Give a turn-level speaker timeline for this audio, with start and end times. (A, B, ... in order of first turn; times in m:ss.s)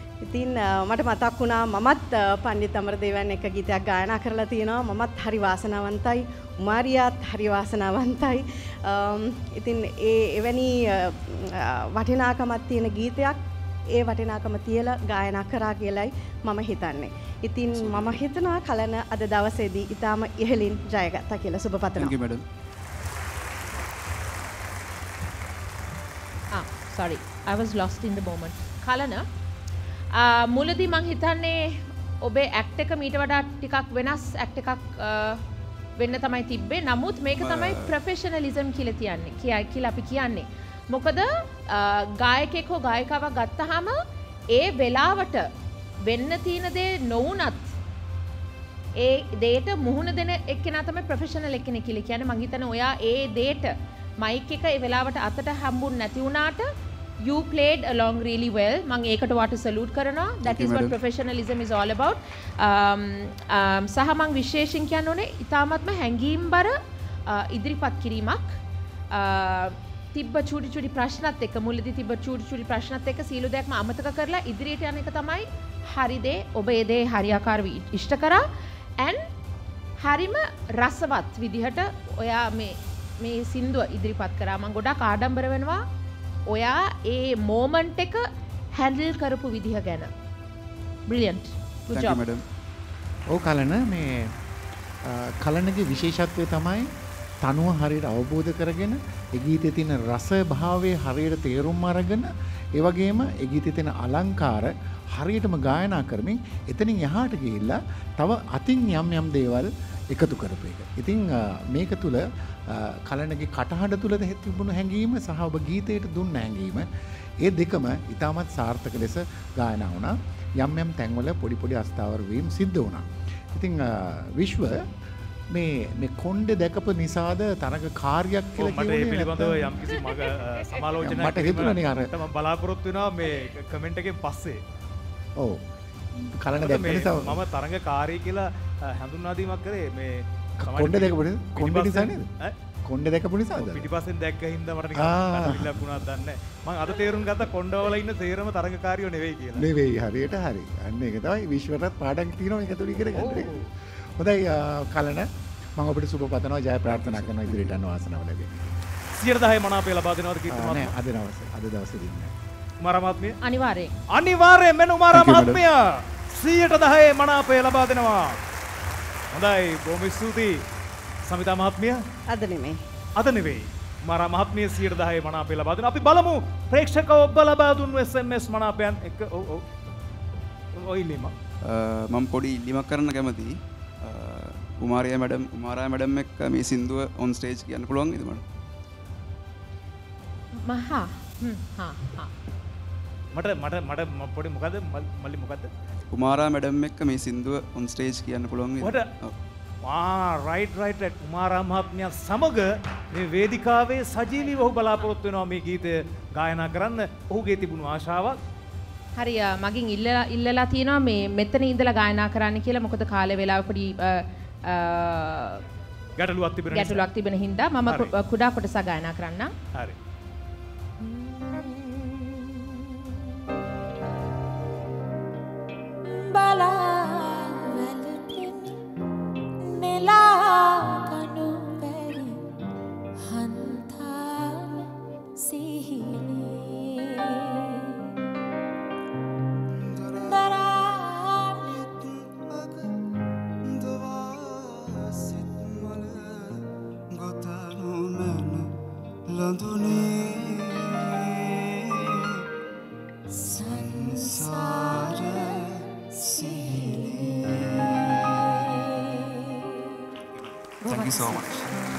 0:00.2-0:13.4 A
0:13.9-0:22.1 A
0:17.7-0:18.2 B
0:22.0-0:22.4 B
0:26.5-0:29.2 C
0:30.1-0:35.4 C
0:36.0-0:45.5 C
0:37.4-0:37.9 B
0:46.0-0:47.7 C
0:49.0-0:56.7 C
0:57.2-1:08.6 C
1:00.4-1:00.9 B
1:09.1-1:18.5 C
1:19.0-1:19.2 C
1:20.0-1:25.8 C
1:26.5-1:30.1 C
1:31.1-1:32.2 C
1:31.9-1:32.4 B
1:33.3-1:34.3 D
1:35.0-1:36.9 D
1:37.4-1:56.9 D
1:57.4-2:04.8 D
2:05.5-2:10.0 D
2:08.6-2:14.6 E
2:11.0-2:12.1 D
2:15.4-2:15.6 D
2:16.1-2:17.4 D
2:16.6-2:22.5 E
2:20.6-2:22.3 D
2:22.8-2:23.9 D
2:23.6-2:29.6 E
2:24.9-2:25.8 D
2:29.5-2:33.5 D
2:33.1-2:33.6 E
2:34.2-2:38.8 D
2:37.2-2:37.7 B
2:39.1-2:40.9 E
2:40.5-2:42.3 D
2:42.8-2:43.4 E
2:43.4-2:44.0 C
2:44.1-2:48.4 E
2:45.1-2:45.6 D
2:49.3-2:50.6 E
2:51.2-2:52.0 E
2:52.3-2:52.8 A
2:53.2-2:59.6 E
3:00.8-3:01.3 E
3:01.6-3:08.4 B
3:10.5-3:12.3 C
3:13.3-3:15.7 E
3:16.1-3:19.3 B
3:18.8-3:19.1 E
3:19.8-3:28.4 E
3:29.1-3:35.6 C
3:36.2-3:37.0 E
3:36.7-3:39.5 C
3:37.9-3:38.1 E
3:41.3-3:42.1 C
3:46.1-3:48.6 C
3:49.6-3:52.2 C
3:53.3-3:54.6 C
3:55.5-3:56.6 C
3:59.7-4:03.1 F
4:03.6-4:08.7 F
4:09.2-4:12.4 F
4:13.6-4:19.0 F
4:20.8-4:21.4 C
4:20.8-4:21.7 B